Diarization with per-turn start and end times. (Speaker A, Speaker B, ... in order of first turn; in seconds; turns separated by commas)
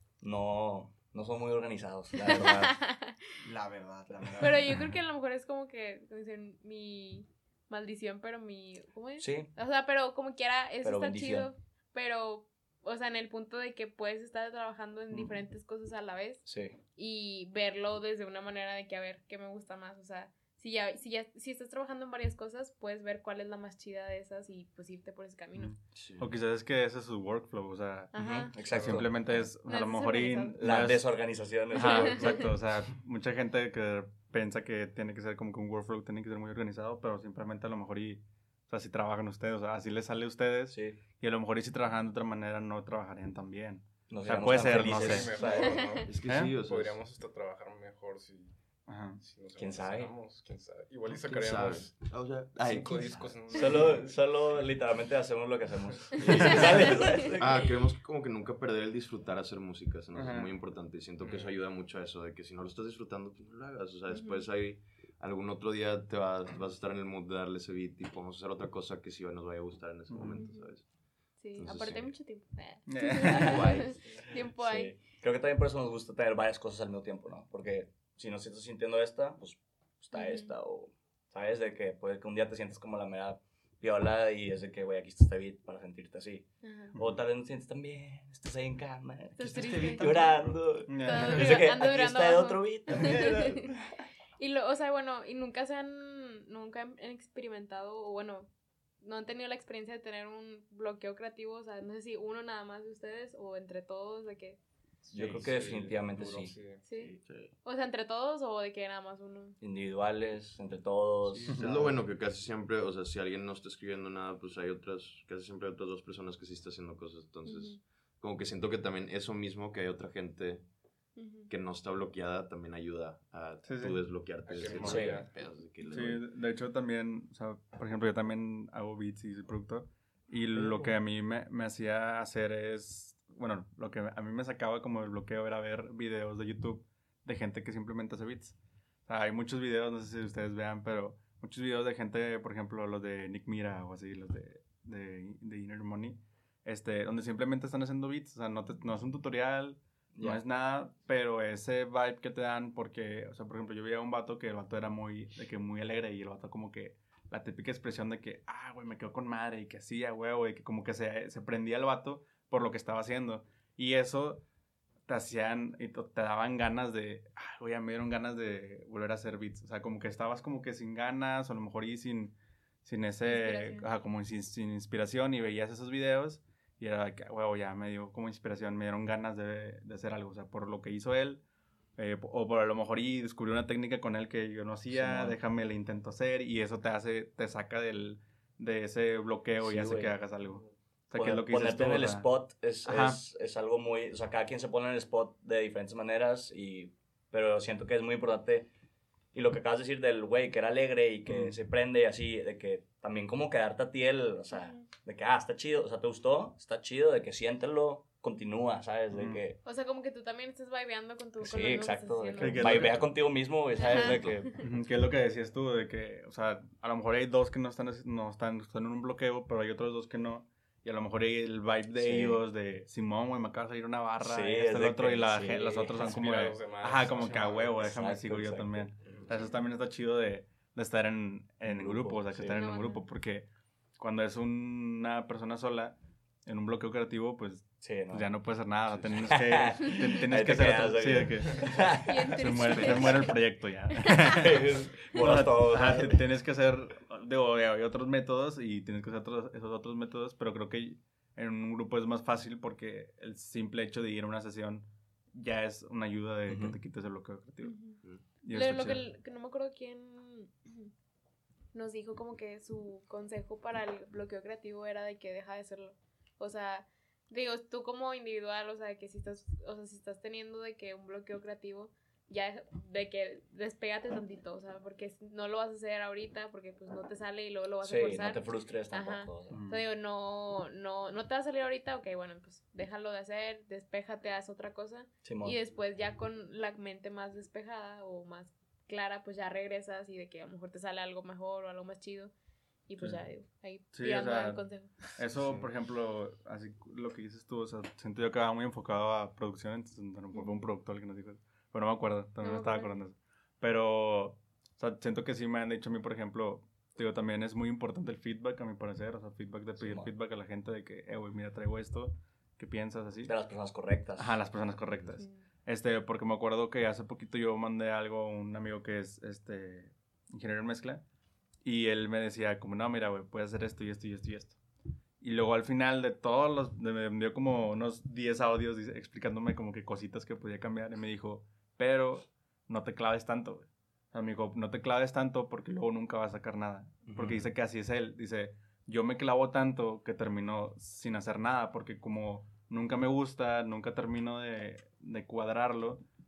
Speaker A: 0.2-2.7, Speaker B: 2.2-3.2, Speaker C: 3.4-4.8, Speaker B: 4.4-25.8, Speaker A: 9.2-9.5, Speaker A: 10.8-11.5, Speaker A: 16.4-16.8, Speaker D: 25.6-31.1, Speaker E: 25.9-26.3, Speaker B: 28.1-30.6, Speaker A: 28.2-29.4, Speaker A: 30.6-32.5, Speaker D: 31.8-45.3, Speaker B: 31.8-32.4, Speaker A: 40.7-41.0, Speaker A: 44.1-45.9, Speaker F: 44.6-48.5, Speaker B: 45.4-46.1, Speaker E: 46.0-47.0, Speaker D: 46.2-46.5, Speaker D: 48.9-49.2, Speaker F: 49.2-52.0, Speaker A: 49.6-50.1, Speaker E: 51.3-53.4, Speaker F: 52.6-54.1, Speaker A: 53.5-57.7, Speaker B: 56.2-57.3, Speaker E: 56.3-70.9, Speaker D: 60.1-60.5, Speaker F: 61.2-61.6, Speaker B: 64.1-64.5, Speaker D: 70.1-70.3, Speaker B: 70.3-70.7, Speaker B: 71.4-75.0, Speaker E: 71.6-72.2, Speaker D: 72.9-73.7, Speaker A: 73.3-73.8, Speaker E: 73.3-74.0, Speaker A: 74.4-93.8, Speaker B: 80.1-80.5, Speaker B: 86.6-87.0, Speaker D: 86.9-87.2, Speaker B: 89.4-93.8, Speaker D: 89.5-91.5, Speaker B: 94.4-98.5, Speaker B: 99.0-104.6, Speaker F: 105.0-106.8, Speaker A: 105.1-106.5, Speaker C: 106.1-107.2, Speaker B: 106.8-107.1, Speaker E: 107.3-107.5, Speaker B: 107.6-109.6, Speaker A: 109.6-111.5, Speaker C: 111.3-112.0, Speaker E: 111.6-120.7, Speaker B: 117.5-117.8, Speaker B: 121.2-121.5, Speaker E: 121.5-126.2, Speaker D: 123.6-124.0, Speaker F: 124.5-125.3, Speaker A: 124.7-125.2, Speaker D: 125.9-138.6, Speaker C: 130.5-130.9, Speaker D: 139.1-164.4, Speaker A: 150.2-150.4, Speaker D: 165.1-181.4, Speaker B: 173.2-173.9, Speaker D: 182.0-192.3, Speaker A: 184.9-185.4, Speaker A: 189.6-190.2, Speaker A: 191.1-198.7, Speaker D: 192.8-193.2, Speaker A: 199.3-209.6, Speaker D: 201.3-201.6, Speaker B: 204.5-204.8, Speaker D: 209.1-209.4, Speaker B: 209.7-213.0, Speaker A: 211.4-214.5, Speaker D: 212.4-213.0, Speaker B: 213.8-214.6, Speaker E: 213.9-214.4, Speaker D: 214.6-233.5, Speaker A: 222.0-222.4, Speaker A: 224.2-226.2, Speaker F: 225.9-227.8, Speaker A: 227.8-228.9, Speaker F: 229.0-229.3, Speaker A: 231.7-232.6, Speaker B: 232.5-233.1, Speaker D: 234.0-241.7, Speaker A: 237.8-238.3, Speaker A: 238.9-243.3, Speaker B: 242.0-243.4, Speaker D: 242.3-257.8, Speaker A: 244.2-246.2, Speaker A: 256.5-256.8, Speaker B: 257.6-260.9, Speaker D: 258.4-259.0, Speaker B: 261.7-292.3, Speaker A: 277.8-279.6, Speaker D: 279.5-279.9, Speaker A: 285.2-285.6, Speaker B: 292.9-295.2, Speaker D: 293.9-294.6, Speaker D: 295.1-313.3, Speaker C: 295.4-295.7, Speaker B: 300.3-300.6, Speaker B: 302.4-302.9, Speaker A: 309.8-310.1, Speaker A: 313.2-314.4, Speaker D: 314.2-321.0, Speaker D: 321.6-324.6, Speaker D: 325.2-346.0, Speaker A: 337.1-337.5